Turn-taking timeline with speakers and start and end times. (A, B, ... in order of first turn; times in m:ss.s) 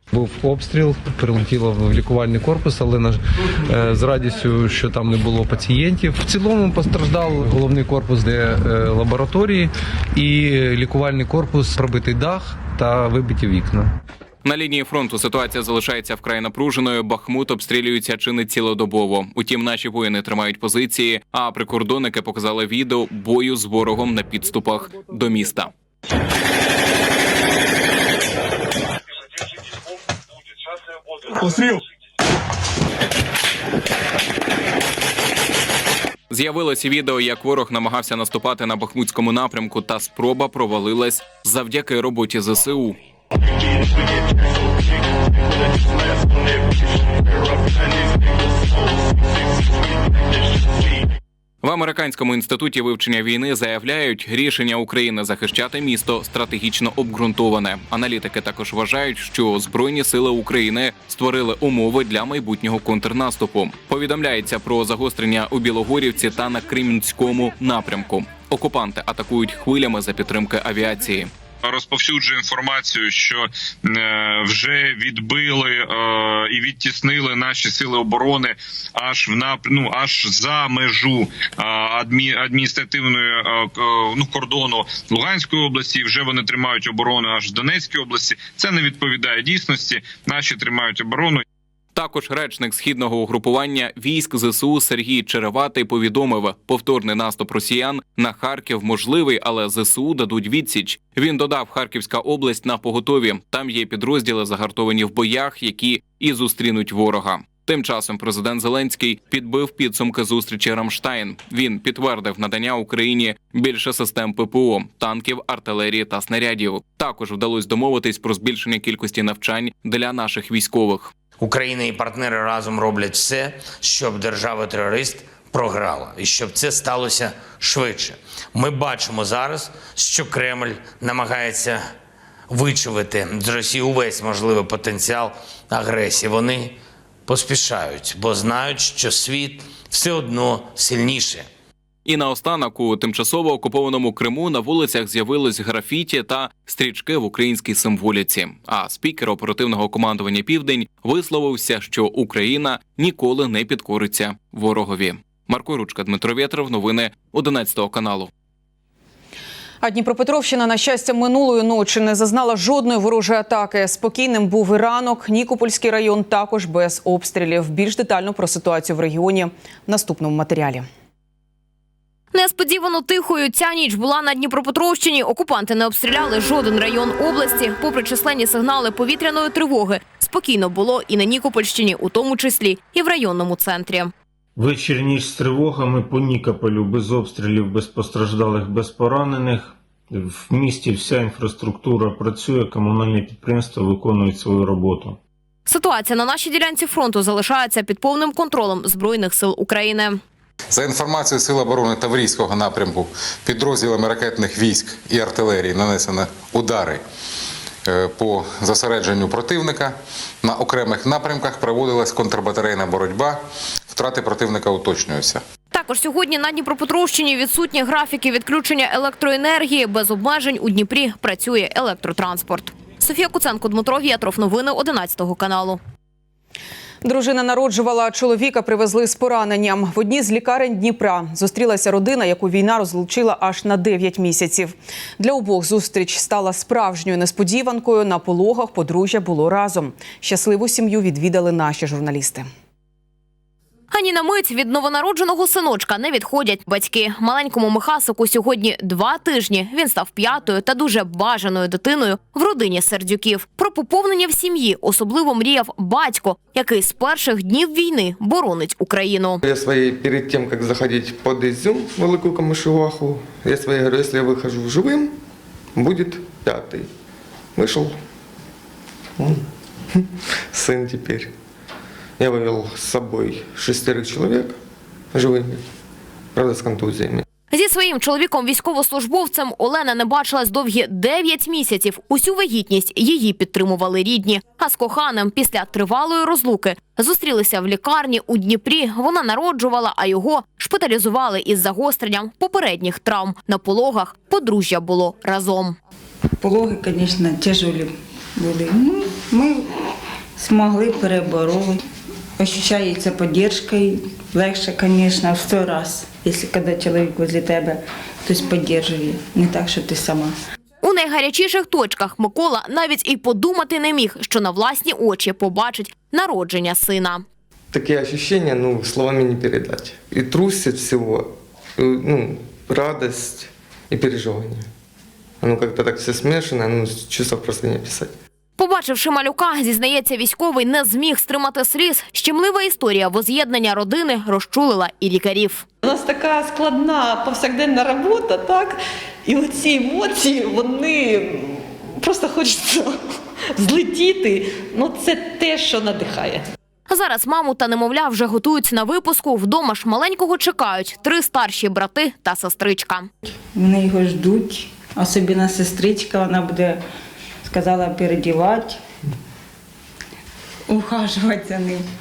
0:00.1-0:13.9 A
0:14.4-0:25.7 B
0:36.3-0:43.0 B
0:51.6-1:11.3 B
1:11.6-1:31.4 C
1:31.9-2:01.1 B
2:01.4-2:11.7 D
2:01.6-2:03.2 E
2:04.0-2:05.2 E
2:06.4-2:07.4 E
2:10.2-2:11.7 E
2:12.5-2:15.2 D
2:12.9-2:13.3 E
2:14.8-2:15.3 E
2:15.8-2:16.7 D
2:15.8-2:16.2 E
2:17.3-2:21.2 D
2:20.1-2:21.4 E
2:22.0-2:38.3 B
2:39.8-2:50.8 F
2:52.3-3:04.1 G
3:04.6-3:15.2 H
3:15.7-3:20.2 G
3:20.7-3:27.0 I
3:27.8-3:35.4 I
3:35.7-3:45.8 G
3:47.0-4:02.4 F
4:03.9-4:19.4 G
4:19.4-4:25.1 E
4:25.7-4:26.9 E
4:27.6-4:28.0 E
4:30.0-4:31.3 E
4:32.2-4:34.5 E
4:35.1-4:35.6 E
4:36.3-4:37.2 E
4:37.5-4:55.8 G
4:56.4-4:59.7 J
5:00.4-5:01.8 J
5:02.4-5:10.3 J
5:10.8-5:17.2 G
5:17.7-5:24.6 E
5:25.4-5:28.1 E
5:28.6-5:35.6 G
5:35.8-5:38.8 K
5:39.3-5:42.9 K
5:43.6-5:46.4 K
5:46.9-5:53.1 G
5:53.5-5:56.8 J
5:57.4-5:58.8 J
6:00.7-6:01.8 J